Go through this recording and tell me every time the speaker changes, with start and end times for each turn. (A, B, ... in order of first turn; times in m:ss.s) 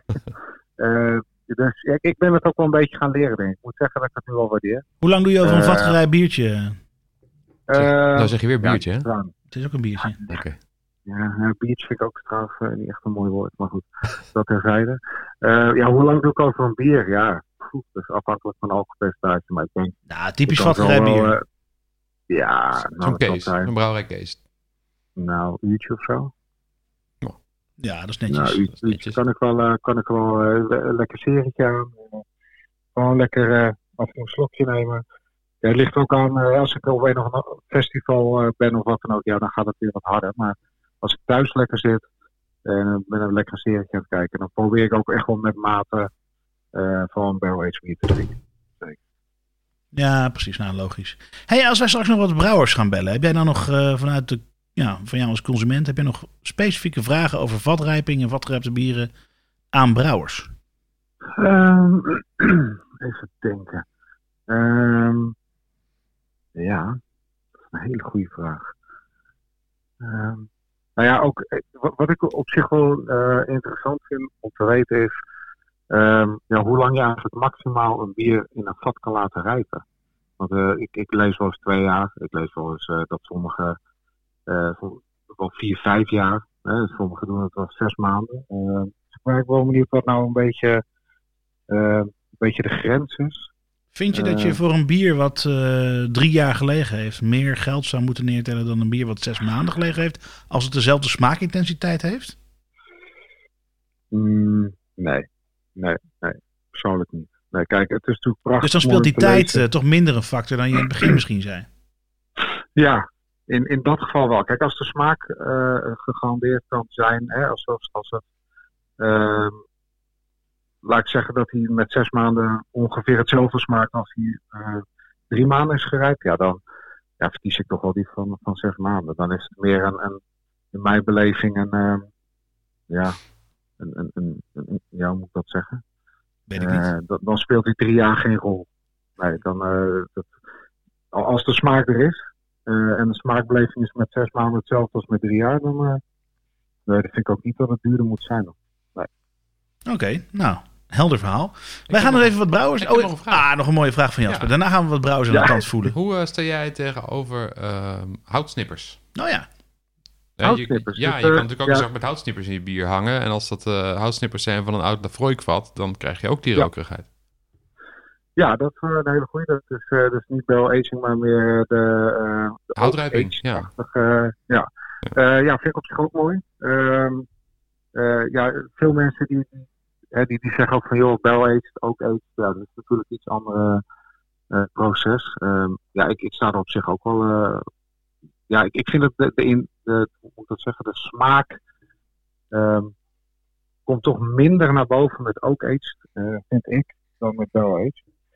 0:00.8-0:04.8 A
0:05.0-0:06.8 B
0:05.4-0:06.0 A
0:07.7-0:09.3 A
0:07.7-0:09.1 C
0:09.5-0:10.2 B
0:10.3-0:10.6 C
0:11.1-0:20.0 A
0:20.1-0:21.4 B
0:20.5-0:21.4 A
0:22.3-0:23.7 A
0:23.0-0:24.4 C
0:25.2-0:26.3 A
0:27.8-0:28.8 B
0:28.3-0:32.2 A
0:28.9-0:29.2 C
0:33.0-0:35.0 A
0:35.6-0:42.1 A
0:42.6-0:46.1 A
0:46.7-0:49.0 A
0:49.9-0:59.1 B
0:59.7-1:00.5 B
1:01.4-1:03.8 A
1:04.5-1:05.4 A
1:06.6-1:07.0 A
1:07.7-1:08.7 A
1:10.0-1:15.1 A
1:15.9-1:19.8 A
1:20.4-1:23.8 A
1:24.5-1:30.8 A
1:31.7-1:33.5 A
1:33.9-1:42.4 B
1:34.1-1:34.6 A
1:44.1-1:49.6 A
1:48.6-1:51.7 B
1:52.8-1:58.2 A
1:59.0-1:59.6 A
2:00.8-2:06.6 A
2:07.2-2:10.2 A
2:10.7-2:12.0 A
2:12.9-2:13.2 A
2:13.8-2:15.8 A
2:16.5-2:16.9 B
2:16.6-2:20.3 A
2:21.1-2:26.0 A
2:26.9-2:29.1 A
2:29.9-2:36.0 B
2:31.9-2:33.5 C
2:34.3-2:34.5 C
2:35.9-2:39.0 C
2:39.2-2:39.5 B
2:40.4-2:47.0 C
2:40.4-2:41.8 A
2:48.4-2:57.3 A
2:52.8-2:53.7 C
2:58.0-3:03.8 A
3:04.5-3:07.6 A
3:08.5-3:11.6 A
3:12.5-3:12.9 A
3:13.9-3:18.0 A